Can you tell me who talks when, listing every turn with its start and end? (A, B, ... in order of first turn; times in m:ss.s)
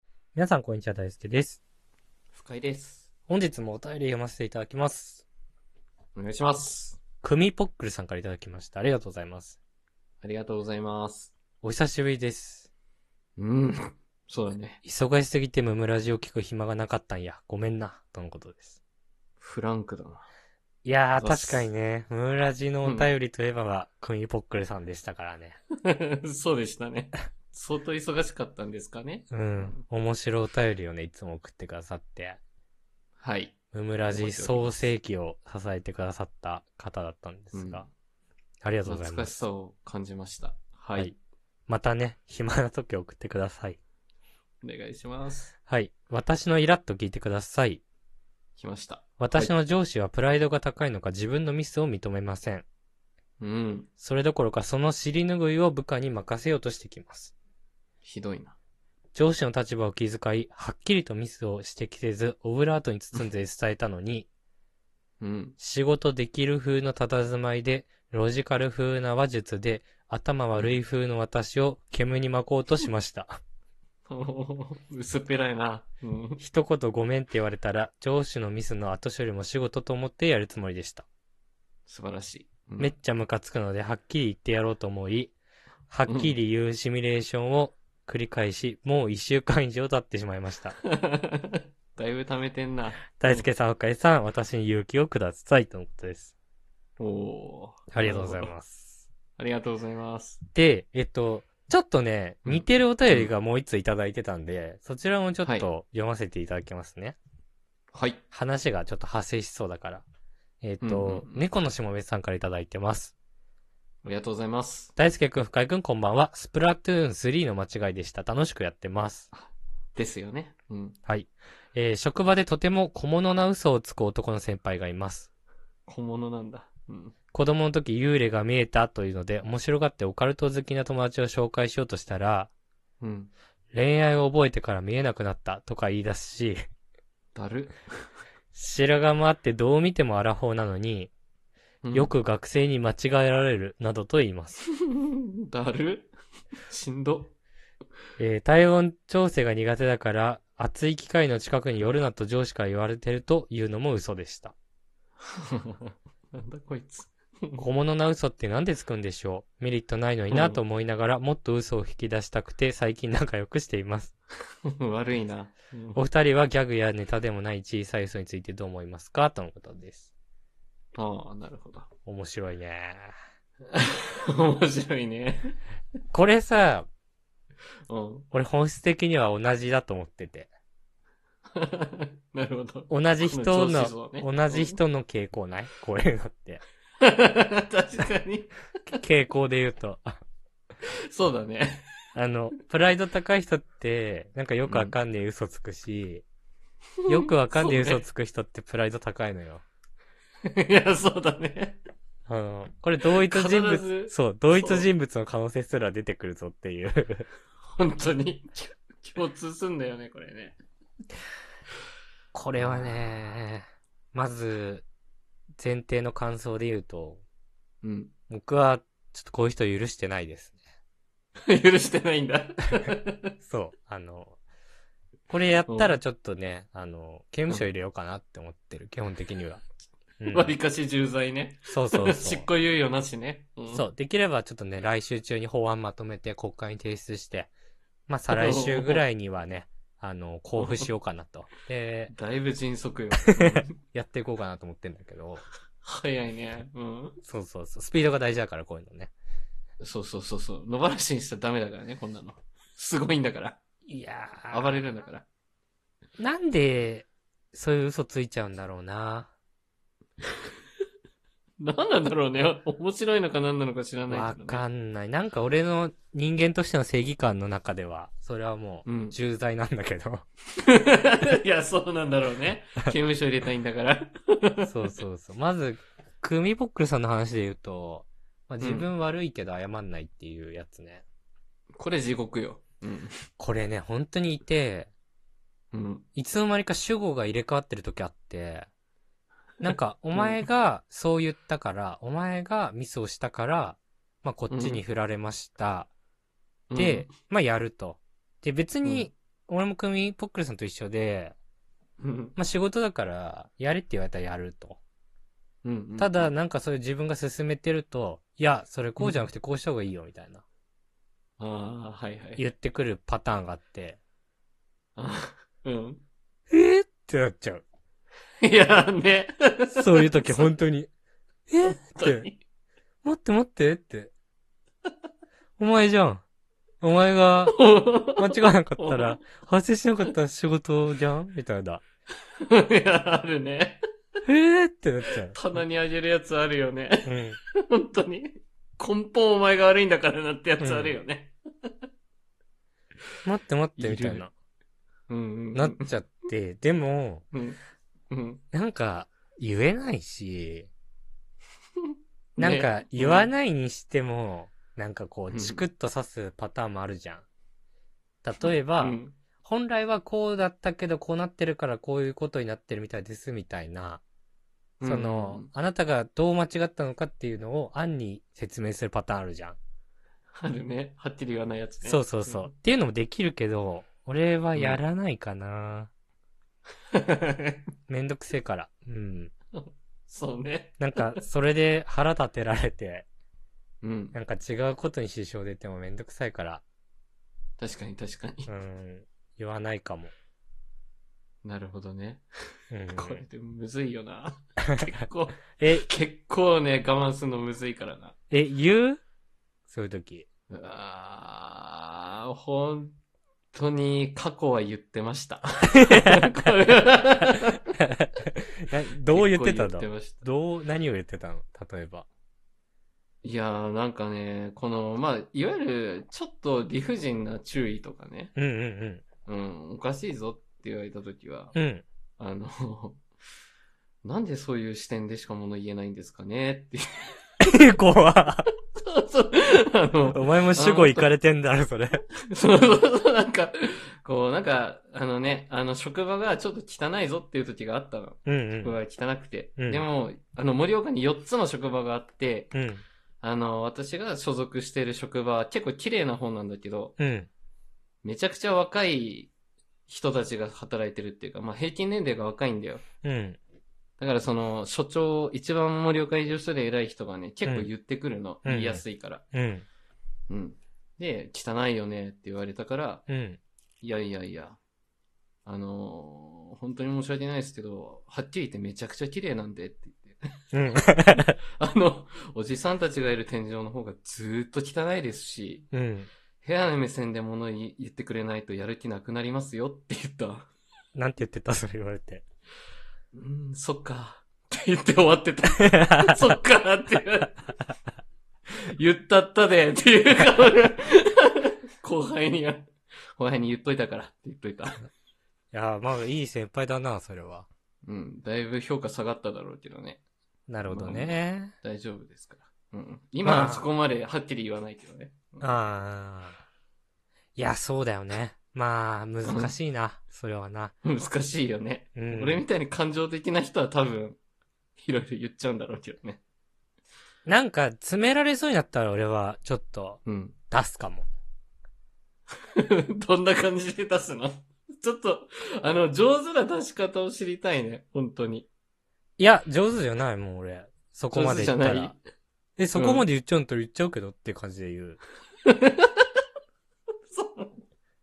0:00.3-0:01.6 A
0:02.3-0:03.1 B
0:03.3-0:05.2 A
0:06.2-0:07.0 B
0:07.2-0:09.6 A
0:10.2-0:11.3 B
0:11.6-0:12.7 A
0:13.4-0:14.8 B
0:14.8-0:18.8 A
0:19.4-0:20.2 B
0:20.8-0:25.6 A
0:21.2-0:21.7 B
0:22.8-0:23.1 B
0:25.8-0:29.8 B
0:29.3-0:32.4 A
0:33.2-0:33.6 B
0:33.7-0:37.8 A
0:34.1-0:34.9 B
0:37.5-0:37.9 B
0:38.6-0:39.4 A
0:38.8-0:41.1 B
0:41.7-0:43.8 A
0:44.6-0:45.5 B
0:45.7-0:47.8 A
0:48.6-0:49.5 B
0:49.2-0:52.6 A
0:53.4-0:53.9 B
0:54.0-0:57.3 A
0:58.0-0:58.6 B
0:59.1-1:04.3 A
1:05.2-1:05.6 B
1:05.6-1:13.4 A
1:14.1-1:16.4 B
1:16.4-1:21.0 A
1:21.9-1:22.9 B
1:22.8-1:25.3 A
1:25.9-1:30.8 A
1:26.1-1:26.3 B
1:30.8-1:33.4 B
1:33.2-1:36.3 A
1:37.0-1:38.5 B
1:37.9-1:39.0 A
1:39.4-1:40.4 B
1:40.5-1:47.2 A
1:42.4-1:43.3 B
1:45.4-1:45.7 B
1:47.9-1:48.2 B
1:48.3-1:50.0 A
1:50.6-1:53.1 A
1:50.8-1:51.4 B
1:54.0-1:54.9 B
1:55.0-1:59.3 A
1:59.3-2:01.0 B
2:01.1-2:05.3 A
2:05.8-2:07.1 B
2:07.3-2:12.5 A
2:13.0-2:13.3 B
2:13.7-2:16.6 A
2:17.3-2:17.8 B
2:18.5-2:21.1 A
2:21.8-2:22.1 B
2:21.9-2:24.6 A
2:24.8-2:26.1 B
2:26.7-2:27.3 B
2:28.2-2:34.5 A
2:35.3-2:37.6 B
2:37.6-2:44.1 A
2:40.3-2:40.6 B
2:44.6-2:46.0 B
2:46.0-2:50.1 A
2:50.9-2:51.9 B
2:52.0-2:53.1 A
2:53.7-2:55.5 B
2:56.1-2:56.9 A
2:57.9-2:58.2 B
2:58.3-3:00.5 A
3:01.5-3:04.8 B
3:02.9-3:06.6 A
3:07.0-3:08.5 B
3:08.9-3:10.2 A
3:11.1-3:11.8 B
3:12.1-3:16.2 A
3:14.6-3:14.9 B
3:17.1-3:19.6 A
3:17.1-3:18.0 B
3:20.4-3:21.8 B
3:22.3-3:27.2 A
3:23.1-3:24.9 B
3:27.7-3:30.6 B
3:32.3-3:34.8 A
3:32.6-3:33.0 B
3:35.6-3:37.2 A
3:37.8-3:38.1 B
3:38.3-3:40.6 A
3:41.5-3:43.3 B
3:43.4-3:44.4 A
3:45.3-3:49.6 A
3:45.7-3:46.0 B
3:50.2-3:50.6 A
3:50.3-3:53.8 B
3:51.7-3:52.5 A
3:53.7-3:57.5 A
3:58.1-4:02.1 A
3:58.3-3:59.0 B
4:00.6-4:00.9 B
4:02.1-4:03.7 B
4:03.3-4:05.4 A
4:05.8-4:07.2 B
4:07.2-4:09.1 A
4:09.8-4:13.6 B
4:13.9-4:14.8 A
4:14.5-4:15.2 B
4:16.2-4:19.3 A
4:21.6-4:24.6 B
4:24.1-4:30.2 A
4:28.8-4:29.2 B
4:30.6-4:34.7 B
4:34.6-4:41.0 A
4:38.6-4:38.9 B
4:41.8-4:43.2 B
4:43.4-4:44.9 A
4:45.7-4:46.0 B
4:46.2-4:48.7 A
4:49.6-4:55.9 A
4:50.1-4:50.4 B
4:54.5-4:54.8 B
4:56.7-4:57.1 B
4:56.8-5:01.4 A
5:02.0-5:02.3 B
5:02.4-5:04.8 A
5:05.6-5:06.3 B
5:06.0-5:10.4 A
5:09.0-5:09.2 B
5:11.4-5:12.4 B
5:12.4-5:14.0 A
5:15.0-5:16.0 B
5:16.5-5:17.6 A
5:18.4-5:20.5 B
5:19.7-5:20.9 A
5:21.5-5:22.3 A
5:21.6-5:22.4 B
5:23.0-5:24.1 A
5:25.6-5:26.2 A
5:26.8-5:27.6 A
5:27.5-5:29.2 B
5:28.1-5:31.8 A
5:32.5-5:33.8 B
5:34.2-5:35.4 A
5:35.3-5:41.7 B
5:37.0-5:37.4 A
5:40.6-5:41.0 A
5:43.2-5:44.3 A
5:43.8-5:44.2 B
5:45.1-5:45.9 B
5:45.5-5:47.2 A
5:47.3-5:47.6 B
5:48.1-5:48.4 B
5:48.5-5:50.7 A
5:51.8-5:53.3 B
5:52.4-5:57.2 A
5:55.3-5:55.6 B
5:58.2-6:04.0 A
5:58.8-5:59.1 B
6:04.8-6:05.5 B
6:04.8-6:09.6 A
6:10.4-6:12.5 B
6:11.8-6:15.9 A
6:14.5-6:14.8 B
6:16.9-6:17.6 B
6:17.9-6:19.3 A
6:19.5-6:21.2 B
6:20.8-6:23.1 A
6:23.8-6:24.2 B
6:24.1-6:26.6 A
6:27.6-6:28.5 B
6:28.5-6:30.1 A
6:31.4-6:32.2 B
6:32.7-6:33.2 A
6:32.9-6:38.1 B
6:35.6-6:35.9 A
6:38.3-6:39.0 A
6:39.7-6:40.3 A
6:40.5-6:43.0 B
6:43.5-6:47.6 B
6:45.9-6:46.2 A
6:47.8-6:52.1 A
6:49.1-6:50.2 B
6:53.2-6:58.3 B
6:58.4-6:59.0 A
6:59.2-7:01.5 B
7:01.5-7:01.8 A
7:02.2-7:03.0 B
7:04.0-7:07.2 B
7:07.4-7:08.5 A
7:08.7-7:11.1 B
7:10.1-7:12.0 A
7:12.2-7:22.5 B
7:18.2-7:18.8 A
7:19.6-7:19.8 A
7:22.5-7:22.8 A
7:23.2-7:26.9 B
7:27.0-7:27.3 A
7:28.0-7:29.3 B
7:29.9-7:32.8 B
7:33.0-7:33.4 A
7:34.0-7:39.2 B
7:37.4-7:37.7 A
7:38.4-7:39.6 A
7:40.3-7:43.0 B
7:43.1-7:43.4 A
7:43.8-7:44.6 B
7:45.4-7:55.7 B
7:50.5-7:51.4 A
7:55.7-7:56.1 A
7:56.4-8:00.5 B
8:00.9-8:02.2 A
8:03.1-8:07.4 B
8:05.6-8:06.4 A
8:08.5-8:14.9 B
8:15.5-8:17.5 A
8:17.8-8:20.0 B
8:20.5-8:21.5 A
8:20.7-8:25.6 B
8:23.2-8:23.7 A
8:25.4-8:26.4 A
8:27.4-8:30.7 A
8:29.2-8:29.5 B
8:30.8-8:34.2 B
8:32.0-8:32.4 A
8:34.8-8:36.2 B
8:37.2-8:41.1 A
8:40.0-8:40.4 B
8:42.6-8:48.5 B
8:49.2-8:51.9 A
8:51.1-8:52.0 B
8:52.6-8:55.0 A
8:52.7-8:53.0 B
8:55.4-8:56.1 B
8:57.1-8:57.6 B